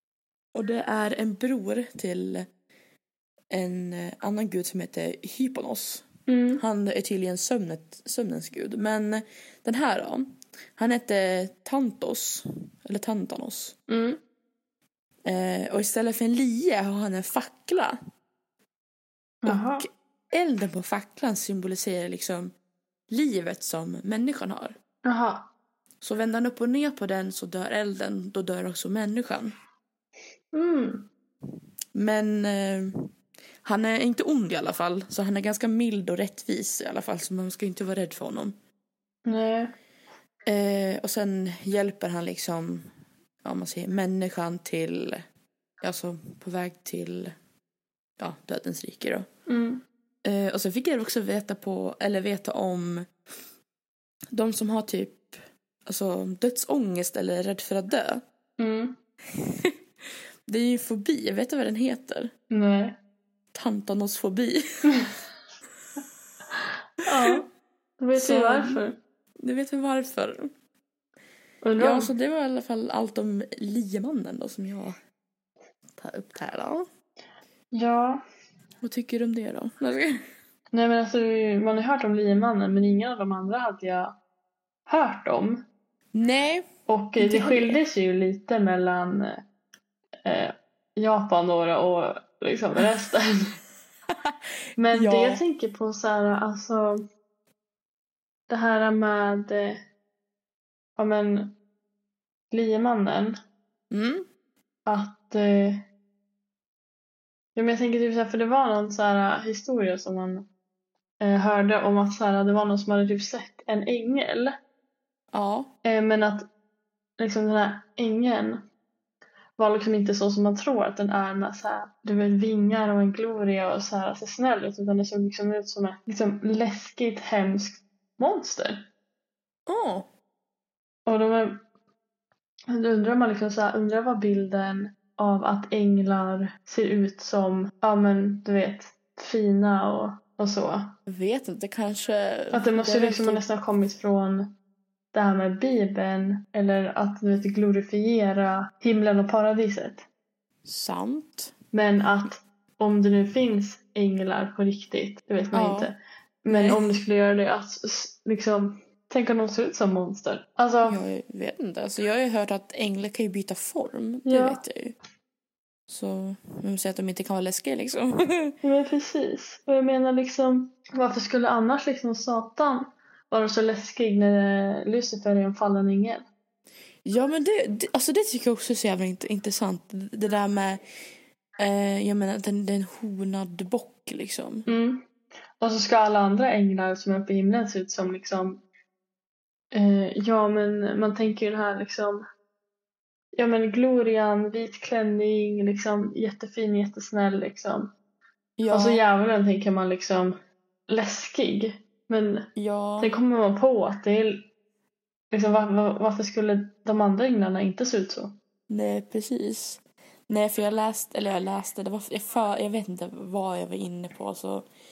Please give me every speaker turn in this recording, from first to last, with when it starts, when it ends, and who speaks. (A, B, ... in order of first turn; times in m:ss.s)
0:00.5-0:02.5 A
0:03.5-0:06.0 A
0:06.3-0:06.6 B
0:06.6-0:13.7 A
0:13.9-0:14.2 B
0:15.2-0:18.0 A
0:19.4-0:19.8 B
0:19.4-0:22.5 A
0:23.1-0:24.8 A
0:25.0-0:25.5 B
0:26.0-0:29.5 A
0:30.5-0:31.1 B
0:31.9-0:33.1 A
0:33.6-0:38.5 A
0:39.2-0:39.7 B
0:40.4-0:42.8 A
0:43.4-0:45.2 A
0:45.8-0:47.3 A
0:48.2-0:49.3 A
0:49.5-0:49.8 B
0:50.2-0:53.1 A
0:54.3-0:55.3 A
0:55.8-0:58.2 A
0:58.6-0:59.0 B
0:59.3-0:59.7 A
1:00.5-1:02.3 A
1:02.5-1:03.0 B
1:03.5-1:04.8 A
1:07.0-1:07.5 B
1:08.0-1:09.0 B
1:08.1-1:08.8 A
1:09.4-1:10.5 A
1:11.6-1:12.1 B
1:11.8-1:15.0 A
1:16.0-1:16.8 A
1:17.7-1:18.2 B
1:18.8-1:20.2 A
1:20.7-1:24.1 B
1:24.9-1:25.6 B
1:26.1-1:26.6 A
1:26.9-1:29.4 B
1:27.2-1:27.8 A
1:30.2-1:33.5 B
1:34.8-1:37.0 B
1:34.9-1:35.4 A
1:38.5-1:39.8 B
1:41.0-1:41.6 B
1:42.5-1:43.4 B
1:43.9-1:44.2 A
1:44.8-1:45.9 B
1:47.6-1:50.5 B
1:51.2-1:54.6 B
1:55.3-1:55.7 A
1:55.8-1:56.5 B
1:57.2-1:58.6 B
1:59.6-2:08.8 B
2:09.7-2:10.1 A
2:11.0-2:11.6 B
2:12.7-2:20.9 B
2:21.1-2:23.4 A
2:22.5-2:24.5 B
2:25.1-2:30.0 B
2:30.6-2:31.5 A
2:31.7-2:41.0 B
2:35.5-2:35.9 A
2:36.5-2:36.8 A
2:40.8-2:44.9 A
2:44.2-2:44.6 B
2:45.9-2:48.6 A
2:48.6-2:56.2 B
2:57.0-3:00.8 A
3:01.6-3:04.7 A
3:04.7-3:05.0 B
3:05.6-3:08.6 B
3:09.7-3:12.2 B
3:13.3-3:17.9 B
3:18.6-3:19.0 A
3:18.7-3:20.4 B
3:20.9-3:22.5 B
3:22.6-3:23.1 A
3:23.0-3:24.5 B
3:25.3-3:28.4 B
3:28.7-3:34.6 A